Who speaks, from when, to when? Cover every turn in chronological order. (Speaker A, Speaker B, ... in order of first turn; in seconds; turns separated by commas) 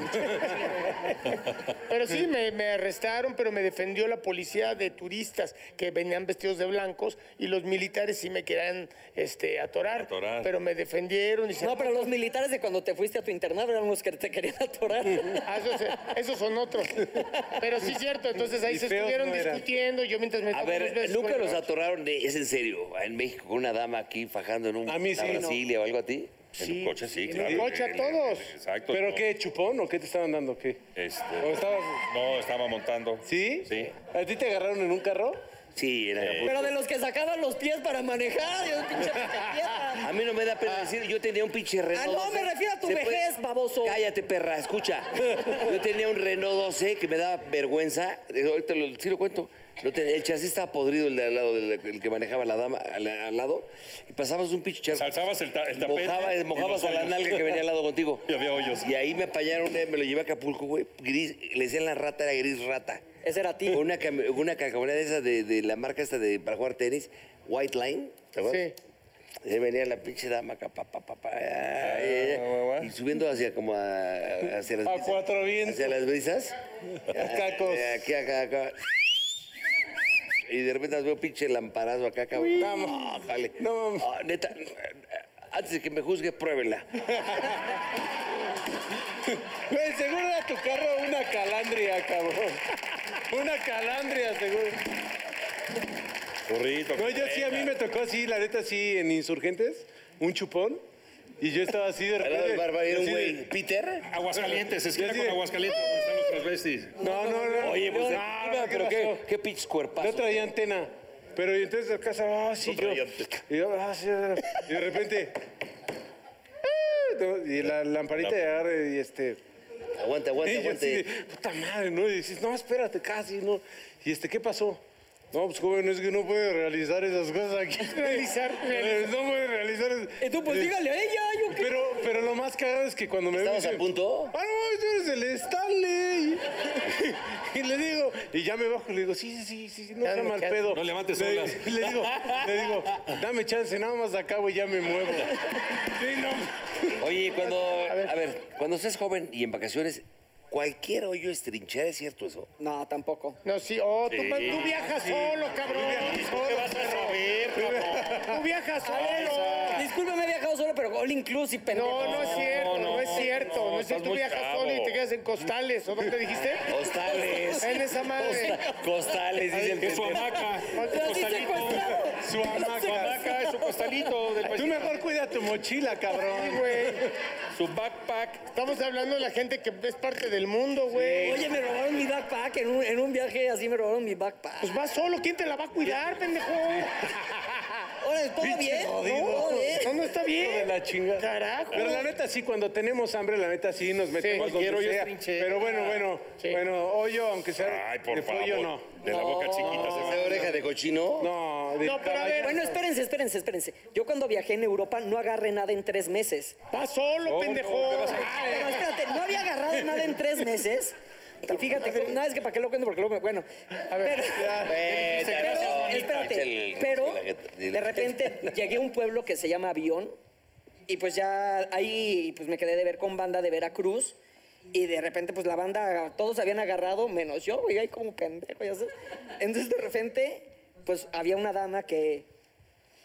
Speaker A: 0.5-12.1, Speaker B: 9.9-10.5, Speaker C: 11.6-15.5, Speaker A: 15.4-21.7, Speaker D: 18.6-19.6, Speaker E: 20.5-26.4, Speaker D: 24.9-25.6, Speaker B: 26.6-29.2, Speaker A: 26.6-28.5, Speaker D: 27.3-27.7, Speaker D: 28.9-30.8, Speaker B: 30.9-33.9, Speaker D: 31.4-32.1, Speaker D: 33.2-35.4, Speaker E: 35.7-36.7, Speaker B: 36.2-36.6, Speaker C: 36.4-40.1, Speaker E: 39.9-43.3, Speaker C: 41.9-44.0, Speaker E: 43.8-55.1, Speaker B: 54.9-57.6, Speaker E: 55.8-63.0, Speaker B: 58.3-58.9, Speaker C: 63.2-63.8, Speaker E: 63.7-68.7, Speaker A: 68.4-68.8, Speaker E: 69.4-76.5, Speaker B: 71.8-72.9, Speaker D: 74.8-76.0, Speaker D: 77.1-78.0, Speaker E: 77.1-78.9, Speaker E: 80.5-87.0, Speaker D: 82.4-84.1, Speaker D: 87.1-87.8, Speaker D: 89.2-94.8, Speaker B: 96.5-97.7, Speaker D: 96.9-100.8, Speaker D: 101.4-103.4, Speaker E: 102.2-104.1, Speaker B: 104.0-107.0, Speaker D: 104.3-105.5, Speaker D: 107.0-109.3, Speaker C: 107.0-108.2, Speaker E: 107.6-110.5, Speaker D: 110.0-115.4, Speaker B: 112.6-113.4, Speaker D: 116.6-119.4, Speaker E: 120.0-121.1, Speaker D: 120.4-124.8, Speaker D: 125.3-130.8, Speaker A: 127.8-129.1, Speaker C: 130.2-131.7, Speaker D: 131.5-147.0, Speaker E: 133.3-134.3, Speaker A: 140.0-140.7, Speaker B: 140.7-142.5, Speaker E: 147.0-152.5, Speaker A: 147.4-148.2, Speaker C: 152.6-153.4, Speaker A: 153.4-157.1, Speaker B: 154.1-154.8, Speaker D: 154.4-158.4, Speaker B: 155.6-159.9, Speaker A: 158.2-159.8, Speaker C: 158.9-162.7, Speaker A: 161.7-166.7, Speaker B: 161.9-165.0, Speaker E: 166.7-170.4, Speaker C: 167.1-167.6, Speaker A: 167.6-168.6, Speaker B: 169.6-172.0, Speaker C: 170.7-174.1, Speaker A: 170.7-171.4, Speaker D: 172.1-173.3, Speaker B: 172.7-175.0, Speaker D: 174.5-177.1, Speaker A: 176.2-177.0, Speaker B: 177.5-178.5, Speaker A: 178.5-181.4, Speaker D: 180.9-181.5, Speaker C: 181.2-184.8, Speaker A: 184.6-187.1, Speaker D: 186.7-187.4, Speaker C: 188.0-189.9, Speaker D: 188.4-200.6, Speaker A: 189.0-192.1, Speaker A: 194.2-194.5, Speaker B: 194.3-196.0, Speaker B: 197.6-200.5, Speaker C: 199.0-199.9, Speaker E: 199.8-201.3, Speaker D: 201.2-202.8, Speaker A: 201.8-202.8, Speaker C: 202.3-206.6, Speaker A: 206.7-208.8, Speaker B: 207.2-208.8, Speaker C: 208.4-214.7, Speaker A: 211.5-212.2, Speaker A: 213.9-214.3, Speaker D: 214.3-215.5, Speaker E: 214.6-218.6, Speaker B: 215.1-216.3, Speaker C: 215.3-220.2, Speaker C: 220.9-224.2, Speaker C: 224.7-232.3